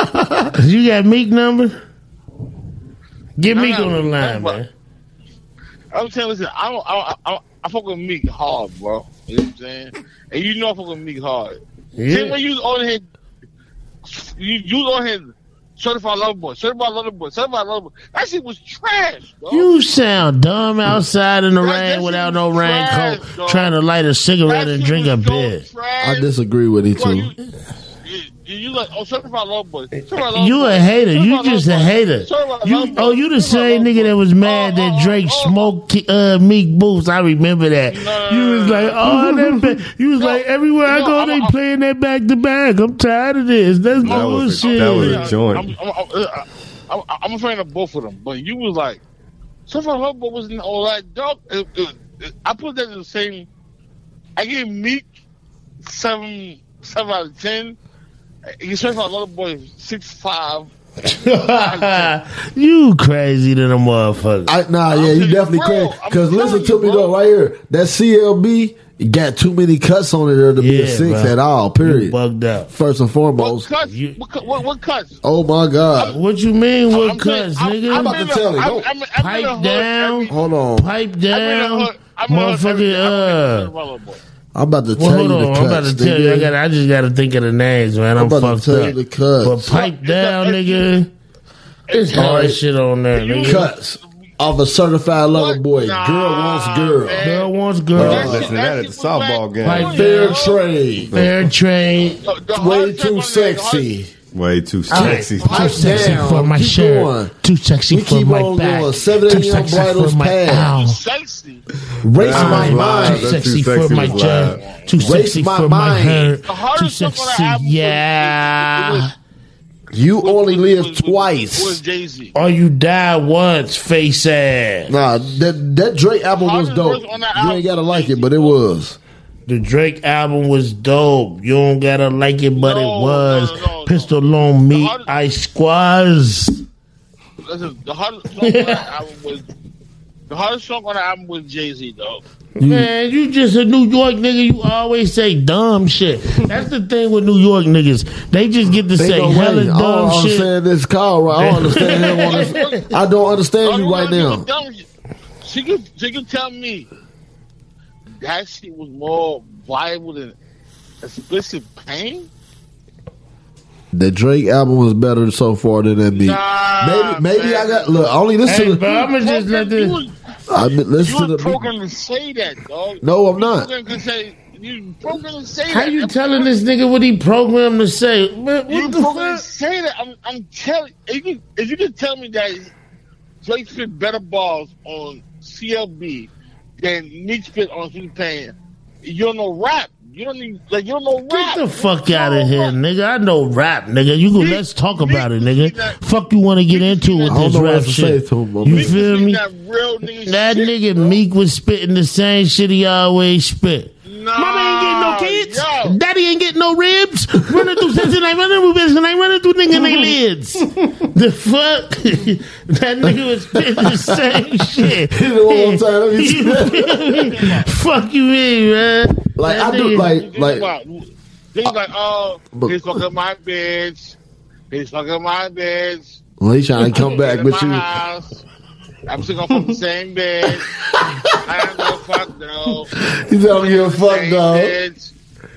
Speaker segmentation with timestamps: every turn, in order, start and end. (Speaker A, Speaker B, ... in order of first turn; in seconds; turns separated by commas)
Speaker A: 0.5-1.8, Speaker A: 3.4-4.7, Speaker B: 3.5-4.6, Speaker B: 5.9-13.0, Speaker A: 11.9-12.4, Speaker B: 14.0-19.7, Speaker A: 19.5-25.6, Speaker B: 21.6-23.7, Speaker B: 24.4-26.3, Speaker C: 26.0-27.3, Speaker B: 26.9-27.3, Speaker B: 28.0-35.7, Speaker A: 30.3-45.3, Speaker B: 37.9-39.1, Speaker B: 40.2-41.5, Speaker D: 44.0-45.7, Speaker B: 44.0-49.0, Speaker B: 49.7-53.5, Speaker B: 54.4-55.1, Speaker B: 55.8-57.8, Speaker B: 58.6-60.7, Speaker A: 61.0-64.5, Speaker B: 61.5-62.1, Speaker C: 64.5-72.2, Speaker B: 64.9-67.1, Speaker A: 70.6-72.7, Speaker C: 72.7-73.7, Speaker B: 73.4-75.2, Speaker A: 73.8-74.2, Speaker C: 75.2-76.1, Speaker A: 76.1-78.2, Speaker B: 76.9-80.3, Speaker C: 77.9-78.9, Speaker A: 79.2-83.7, Speaker C: 80.3-80.9, Speaker B: 81.3-84.2, Speaker C: 84.5-86.5, Speaker A: 85.0-91.1, Speaker C: 88.2-89.8, Speaker B: 89.7-91.0, Speaker B: 91.9-92.5, Speaker A: 91.9-93.7, Speaker C: 92.1-92.6, Speaker B: 93.1-93.7, Speaker C: 93.4-97.3, Speaker B: 95.3-100.6, Speaker A: 97.2-98.4, Speaker C: 98.0-98.5, Speaker D: 98.0-100.0, Speaker A: 99.6-100.4, Speaker C: 99.8-101.1, Speaker D: 101.1-101.4, Speaker A: 101.1-102.2, Speaker B: 102.2-103.9, Speaker C: 102.5-104.1, Speaker D: 104.3-105.7, Speaker A: 104.9-111.0, Speaker C: 105.0-107.3, Speaker B: 105.4-105.8, Speaker C: 107.9-110.7, Speaker B: 110.7-111.6, Speaker C: 112.0-113.4, Speaker A: 112.2-119.1, Speaker D: 112.2-114.6, Speaker B: 113.9-115.0, Speaker C: 115.0-116.4, Speaker B: 116.4-119.1, Speaker C: 119.9-121.8, Speaker B: 120.2-122.3, Speaker A: 122.3-124.9, Speaker C: 124.9-129.0, Speaker B: 126.3-128.6, Speaker A: 129.5-136.6, Speaker B: 132.6-134.1, Speaker B: 134.7-135.1, Speaker B: 137.4-139.5, Speaker A: 138.4-138.8, Speaker B: 140.3-142.2, Speaker C: 142.6-142.9, Speaker A: 142.6-150.5, Speaker C: 149.0-154.4, Speaker A: 151.3-152.8, Speaker B: 152.0-152.9, Speaker B: 153.6-154.8, Speaker B: 155.4-156.9, Speaker B: 158.2-160.3, Speaker B: 161.0-162.3, Speaker C: 163.9-168.9, Speaker B: 166.1-168.1, Speaker A: 168.4-170.0, Speaker B: 169.0-170.1, Speaker C: 170.5-171.7, Speaker B: 171.0-176.6, Speaker C: 173.0-173.7, Speaker A: 175.7-179.4, Speaker B: 178.7-182.7, Speaker B: 183.4-192.7, Speaker A: 191.3-199.4, Speaker B: 194.3-196.0, Speaker B: 196.7-197.5, Speaker C: 197.3-198.9, Speaker B: 198.7-201.2, Speaker A: 200.2-220.1, Speaker B: 204.0-206.0, Speaker C: 213.7-214.2, Speaker C: 214.8-217.2, Speaker B: 217.0-217.7, Speaker C: 219.4-220.7, Speaker B: 220.0-224.2, Speaker C: 222.5-222.9, Speaker B: 224.7-226.2, Speaker C: 226.4-227.9, Speaker B: 226.9-228.4, Speaker B: 229.1-230.6, Speaker C: 230.9-231.9, Speaker B: 231.4-232.9, Speaker C: 232.9-234.8, Speaker B: 233.5-235.1